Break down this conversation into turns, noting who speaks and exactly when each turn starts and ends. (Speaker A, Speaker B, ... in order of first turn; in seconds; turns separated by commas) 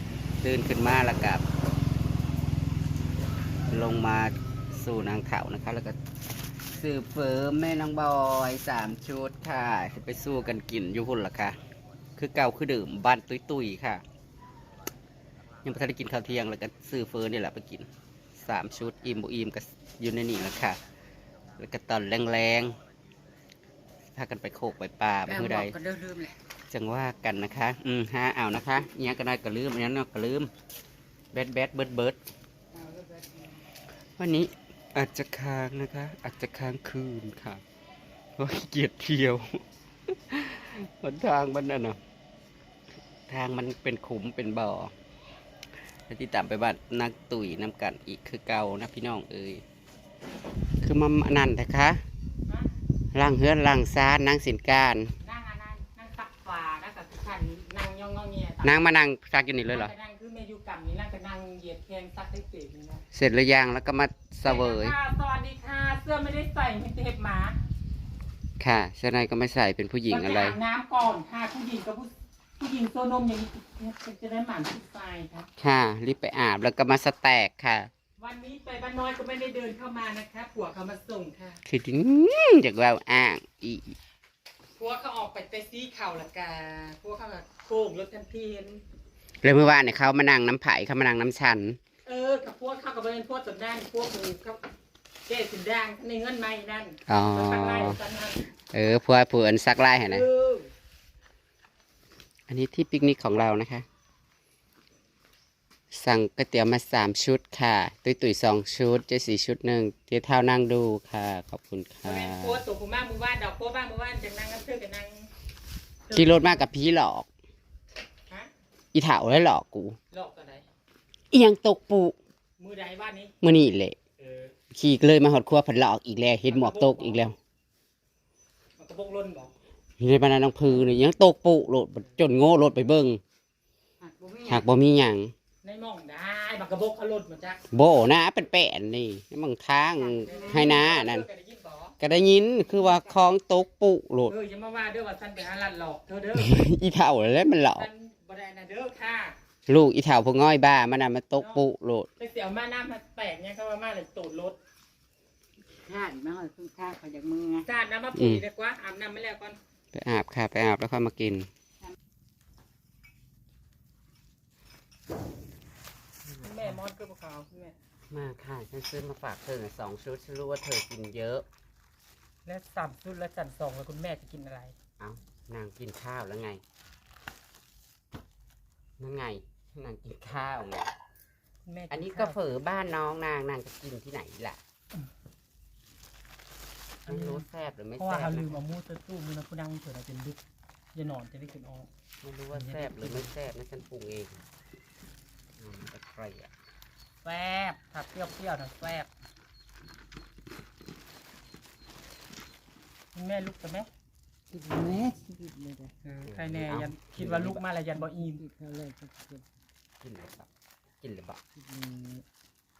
Speaker A: 0.4-1.4, Speaker A: 3.7-6.0, Speaker A: 6.7-11.6, Speaker A: 12.2-14.0, Speaker A: 15.6-20.8, Speaker A: 21.6-22.8, Speaker A: 24.1-25.7, Speaker B: 25.2-26.3, Speaker A: 26.7-30.5, Speaker A: 31.3-32.2, Speaker C: 32.7-33.6, Speaker A: 34.2-37.6, Speaker A: 38.4-42.0, Speaker A: 43.3-44.9, Speaker A: 46.1-49.6, Speaker A: 50.8-52.0, Speaker A: 53.1-55.1, Speaker B: 55.2-58.8, Speaker A: 58.6-59.9, Speaker B: 59.7-63.0, Speaker A: 63.1-65.0, Speaker B: 64.4-67.6, Speaker A: 68.6-70.6, Speaker B: 70.1-75.5, Speaker A: 75.6-77.9, Speaker B: 78.2-81.6, Speaker A: 81.7-84.0, Speaker B: 84.8-88.8, Speaker A: 89.4-91.8, Speaker B: 92.0-94.6, Speaker B: 95.3-98.5, Speaker A: 97.1-98.0, Speaker A: 98.7-100.3, Speaker B: 100.0-100.7, Speaker A: 102.5-103.8, Speaker A: 105.9-112.6, Speaker B: 112.0-115.3, Speaker B: 116.1-116.6, Speaker A: 116.1-117.3, Speaker A: 118.9-120.0, Speaker B: 120.1-120.6, Speaker A: 121.3-122.2, Speaker B: 122.6-123.3, Speaker A: 123.4-124.0, Speaker B: 124.2-124.5, Speaker A: 124.7-127.3, Speaker B: 126.5-127.2, Speaker B: 128.8-129.5, Speaker A: 130.0-133.2, Speaker C: 134.0-134.7, Speaker A: 134.5-135.3, Speaker B: 135.6-137.6, Speaker A: 137.7-141.2, Speaker B: 140.2-141.9, Speaker C: 140.2-140.6, Speaker A: 142.0-144.3, Speaker C: 142.7-143.1, Speaker B: 144.3-146.6, Speaker A: 146.3-147.9, Speaker B: 147.7-149.3, Speaker A: 149.7-152.1, Speaker B: 151.3-151.7, Speaker B: 152.2-154.6, Speaker C: 155.8-157.7, Speaker B: 157.7-159.6, Speaker A: 158.1-158.4, Speaker A: 159.9-161.5, Speaker A: 166.2-166.8, Speaker B: 166.4-167.8, Speaker A: 168.1-171.4, Speaker B: 172.4-174.7, Speaker A: 175.0-176.6, Speaker A: 179.0-180.9, Speaker B: 181.7-182.4, Speaker A: 181.9-184.6, Speaker A: 187.1-188.6, Speaker B: 187.1-190.4, Speaker B: 190.9-191.9, Speaker A: 192.2-194.4, Speaker B: 192.5-193.3, Speaker A: 195.6-196.5, Speaker B: 197.2-199.1, Speaker B: 203.1-203.9, Speaker C: 204.5-205.9, Speaker B: 206.0-208.4, Speaker A: 206.2-207.6, Speaker C: 207.9-209.4, Speaker A: 210.0-210.5, Speaker A: 211.0-211.4, Speaker C: 211.5-212.2